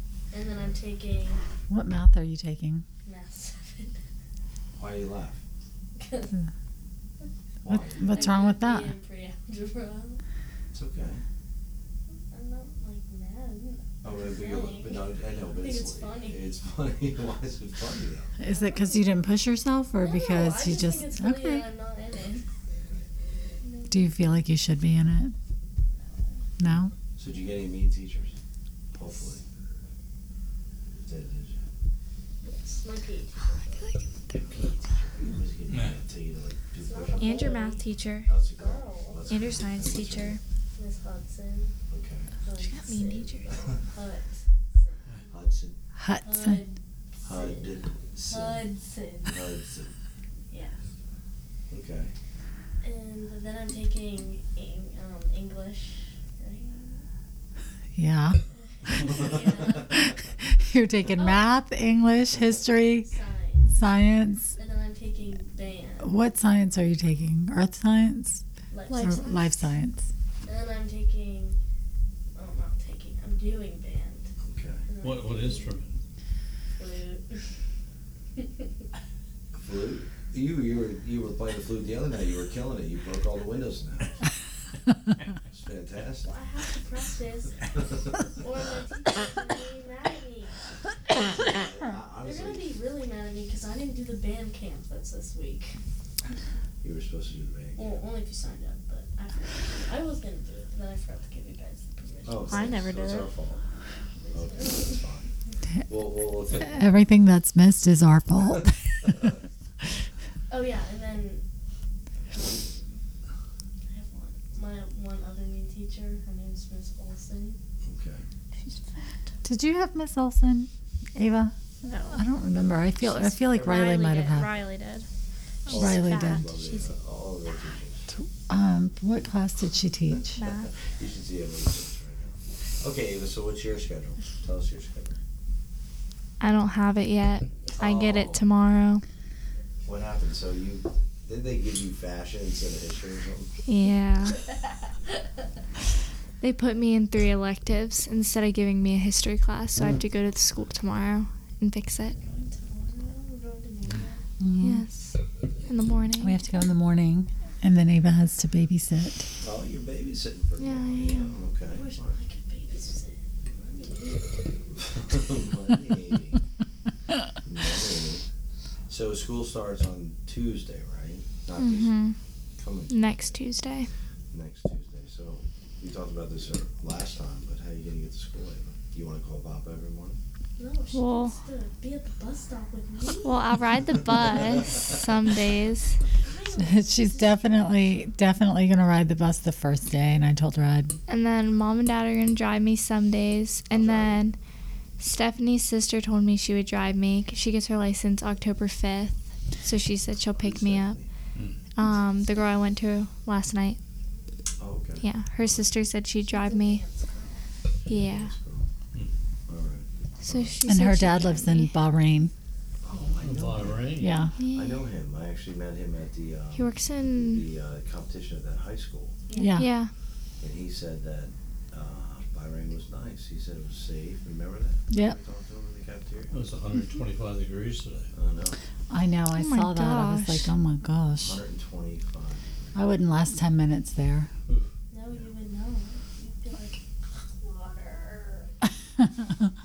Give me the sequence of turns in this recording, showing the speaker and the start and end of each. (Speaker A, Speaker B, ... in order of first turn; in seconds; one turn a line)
Speaker A: 0.3-1.4
Speaker B: 1.7-2.8
Speaker A: 3.0-4.0
Speaker C: 4.8-5.4
Speaker A: 6.0-6.4
Speaker C: 7.6-8.3
Speaker B: 7.7-8.9
Speaker A: 8.0-10.2
Speaker C: 10.7-11.2
Speaker A: 12.1-16.4
Speaker C: 14.0-18.4
Speaker B: 18.4-21.7
Speaker A: 18.4-19.2
Speaker A: 20.0-22.5
Speaker A: 23.6-24.1
Speaker B: 23.9-25.3
Speaker A: 25.8-26.4
Speaker B: 26.6-26.9
Speaker C: 27.2-28.4
Speaker C: 28.9-29.4
Speaker C: 31.0-31.6
Speaker A: 32.4-33.9
Speaker D: 33.7-34.1
Speaker C: 34.3-37.5
Speaker A: 36.8-37.8
Speaker D: 37.2-38.3
Speaker C: 38.2-40.4
Speaker A: 38.5-39.3
Speaker D: 39.3-40.4
Speaker A: 40.7-41.7
Speaker C: 41.9-42.3
Speaker A: 42.4-45.4
Speaker D: 42.6-43.6
Speaker C: 45.3-45.8
Speaker B: 46.0-46.6
Speaker A: 46.2-47.7
Speaker C: 47.2-48.7
Speaker A: 48.3-49.5
Speaker C: 49.3-49.9
Speaker A: 50.5-50.8
Speaker C: 51.7-52.1
Speaker A: 52.8-57.0
Speaker B: 58.0-58.4
Speaker A: 58.5-60.1
Speaker B: 59.9-63.1
Speaker A: 61.1-61.5
Speaker A: 63.0-63.8
Speaker B: 63.7-64.5
Speaker A: 64.5-66.1
Speaker B: 66.0-70.0
Speaker A: 68.7-69.5
Speaker D: 68.9-69.3
Speaker A: 70.4-71.6
Speaker A: 72.3-74.3
Speaker C: 74.4-74.8
Speaker A: 74.9-75.8
Speaker E: 75.0-76.0
Speaker A: 76.8-77.5
Speaker A: 78.3-78.7
Speaker C: 79.5-84.2
Speaker C: 85.5-86.3
Speaker A: 86.2-90.6
Speaker C: 87.9-88.2
Speaker C: 91.3-92.7
Speaker A: 92.2-95.8
Speaker C: 96.8-98.0
Speaker A: 97.8-102.8
Speaker C: 102.2-103.6
Speaker D: 102.5-102.8
Speaker F: 102.5-103.2
Speaker A: 103.6-105.0
Speaker C: 104.3-105.3
Speaker C: 105.9-106.9
Speaker B: 106.5-109.2
Speaker A: 110.5-111.4
Speaker A: 112.3-113.0
Speaker A: 113.9-117.6
Speaker C: 117.8-118.2
Speaker F: 118.7-119.1
Speaker B: 119.4-121.5
Speaker F: 121.8-122.2
Speaker B: 122.1-124.5
Speaker F: 123.2-125.1
Speaker C: 125.7-128.1
Speaker D: 125.7-126.4
Speaker B: 125.7-126.5
Speaker F: 125.8-126.4
Speaker B: 128.1-130.4
Speaker D: 130.4-130.7
Speaker C: 130.4-135.2
Speaker D: 136.4-139.0
Speaker C: 137.8-138.4
Speaker C: 139.8-143.5
Speaker D: 143.7-144.4
Speaker D: 146.4-152.2
Speaker A: 152.2-154.2
Speaker B: 154.4-154.8
Speaker D: 154.6-156.4
Speaker B: 156.2-159.3
Speaker C: 159.4-162.1
Speaker D: 160.6-161.3
Speaker A: 161.7-164.8
Speaker C: 164.8-166.4
Speaker C: 167.4-168.2
Speaker C: 168.9-172.0
Speaker D: 171.6-172.2
Speaker C: 172.6-173.4
Speaker D: 172.9-173.9
Speaker C: 174.3-180.2
Speaker A: 180.6-184.8
Speaker D: 180.9-181.4
Speaker D: 183.2-186.0
Speaker A: 186.2-188.1
Speaker B: 186.6-191.0
Speaker D: 191.1-194.3
Speaker C: 193.7-194.2
Speaker D: 195.0-201.0
Speaker C: 200.2-201.1
Speaker D: 201.7-203.8
Speaker C: 204.6-205.8
Speaker D: 205.0-206.8
Speaker A: 206.3-207.4
Speaker C: 207.8-208.7
Speaker D: 207.9-208.3
Speaker C: 209.5-210.6
Speaker D: 210.2-211.7
Speaker B: 210.7-212.3
Speaker C: 212.8-219.2
Speaker E: 213.2-214.2
Speaker B: 214.0-214.3
Speaker D: 214.3-214.9
Speaker D: 216.5-217.4
Speaker A: 219.3-219.6
Speaker B: 219.4-219.7
Speaker D: 219.4-219.9
Speaker C: 220.4-226.3
Speaker B: 224.9-225.2
Speaker E: 226.3-228.1
Speaker C: 228.1-228.6
Speaker B: 228.9-231.4
Speaker D: 229.3-230.5
Speaker C: 231.2-232.8
Speaker B: 232.7-234.3
Speaker A: 234.9-238.5